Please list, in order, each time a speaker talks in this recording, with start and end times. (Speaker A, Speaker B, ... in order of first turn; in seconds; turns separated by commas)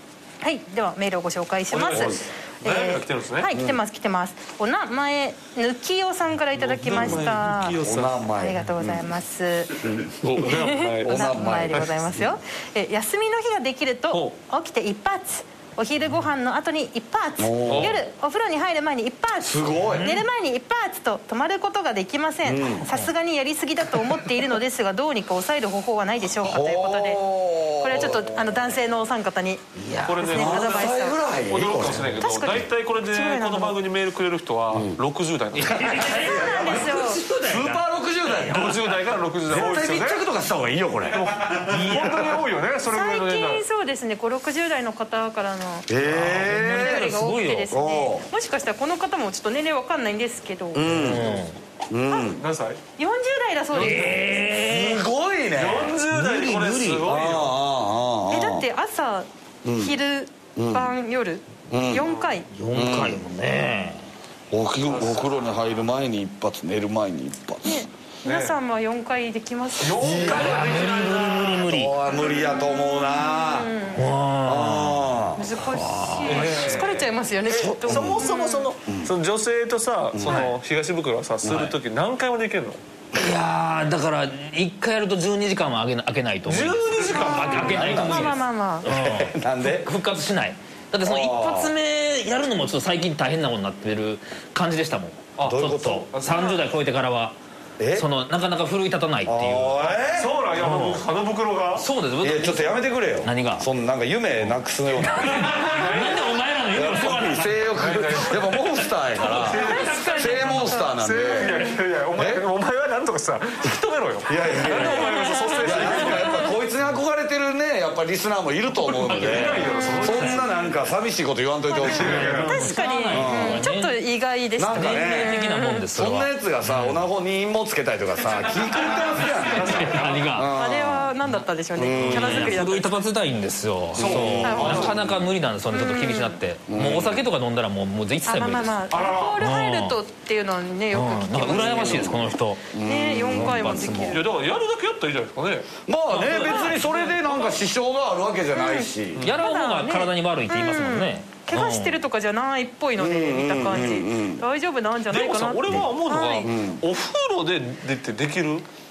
Speaker A: 0.4-7.8, Speaker B: 1.7-3.5, Speaker C: 1.9-2.2, Speaker C: 3.5-3.8, Speaker B: 6.5-8.2, Speaker C: 7.8-9.1, Speaker A: 8.3-27.2, Speaker C: 9.8-12.3, Speaker B: 10.2-12.0, Speaker C: 17.4-18.0, Speaker B: 17.7-18.0, Speaker C: 19.4-20.2, Speaker D: 19.8-20.2, Speaker C: 22.4-22.9, Speaker D: 22.8-23.1, Speaker C: 26.4-28.4, Speaker A: 27.8-29.6, Speaker D: 29.8-30.2, Speaker B: 30.0-30.9, Speaker A: 30.2-31.2, Speaker C: 30.2-32.2, Speaker B: 31.5-36.0, Speaker A: 32.2-33.8, Speaker D: 35.5-38.8, Speaker C: 35.6-38.7, Speaker A: 36.0-37.2, Speaker B: 38.5-40.2, Speaker C: 39.5-42.4, Speaker B: 41.1-43.6, Speaker D: 41.7-42.1, Speaker A: 42.9-45.9, Speaker C: 45.9-47.1, Speaker D: 46.0-47.7, Speaker A: 46.5-50.9, Speaker C: 47.7-48.2, Speaker C: 50.7-52.4, Speaker D: 50.8-51.5, Speaker B: 52.4-52.8, Speaker A: 53.0-54.5, Speaker D: 53.7-55.0, Speaker B: 53.8-54.1, Speaker C: 54.5-56.0, Speaker B: 55.5-57.5, Speaker D: 56.1-57.1, Speaker C: 57.0-58.6, Speaker A: 58.3-62.5, Speaker C: 59.6-59.9, Speaker C: 60.5-60.9, Speaker C: 61.7-62.0, Speaker B: 62.0-62.3, Speaker D: 62.5-64.0, Speaker C: 62.7-63.2, Speaker C: 64.5-67.8, Speaker B: 64.9-65.3, Speaker A: 67.6-70.2, Speaker B: 68.2-68.6, Speaker B: 69.8-71.6, Speaker C: 70.0-73.7, Speaker D: 70.2-71.9, Speaker B: 72.2-72.5, Speaker A: 72.4-74.1, Speaker D: 73.9-76.6, Speaker C: 74.4-75.6, Speaker A: 75.3-78.7, Speaker B: 76.2-82.8, Speaker C: 76.4-76.9, Speaker C: 77.5-78.3, Speaker C: 80.1-80.5, Speaker C: 81.4-81.7, Speaker D: 83.1-97.3, Speaker B: 86.4-88.4, Speaker C: 87.6-88.0, Speaker A: 87.8-88.9, Speaker C: 88.8-89.9, Speaker C: 91.0-91.7, Speaker B: 95.4-96.6, Speaker C: 95.5-96.1, Speaker C: 97.8-98.0, Speaker D: 97.9-99.9, Speaker C: 99.2-100.3, Speaker B: 100.0-101.8, Speaker D: 100.5-101.0, Speaker D: 101.8-103.7, Speaker C: 102.2-106.1, Speaker D: 105.0-107.6, Speaker B: 105.6-106.4, Speaker C: 106.7-112.4, Speaker B: 107.7-110.2, Speaker D: 109.2-110.8, Speaker A: 109.6-111.7, Speaker B: 110.8-116.4, Speaker C: 114.3-122.5, Speaker A: 114.7-116.5, Speaker B: 119.0-120.5, Speaker D: 119.2-120.4, Speaker A: 121.7-125.8, Speaker B: 121.8-122.6, Speaker D: 122.0-124.0, Speaker C: 123.1-123.6, Speaker C: 124.6-125.4, Speaker D: 124.7-127.0, Speaker C: 125.9-131.1, Speaker B: 128.4-130.5, Speaker D: 129.5-130.5, Speaker A: 130.5-133.0, Speaker C: 131.8-132.6, Speaker D: 131.9-140.0, Speaker C: 133.9-135.1, Speaker B: 133.9-135.1, Speaker A: 134.4-135.0, Speaker A: 135.7-136.4, Speaker C: 136.7-137.2, Speaker A: 138.2-142.0, Speaker B: 138.9-139.4, Speaker D: 140.9-142.7, Speaker C: 141.4-144.0, Speaker A: 142.8-144.3, Speaker D: 143.3-144.2, Speaker B: 144.1-147.6, Speaker C: 145.9-149.3, Speaker D: 146.1-146.7, Speaker A: 148.5-156.5, Speaker D: 149.2-152.0, Speaker C: 153.0-154.4, Speaker B: 155.1-158.6, Speaker C: 156.4-156.8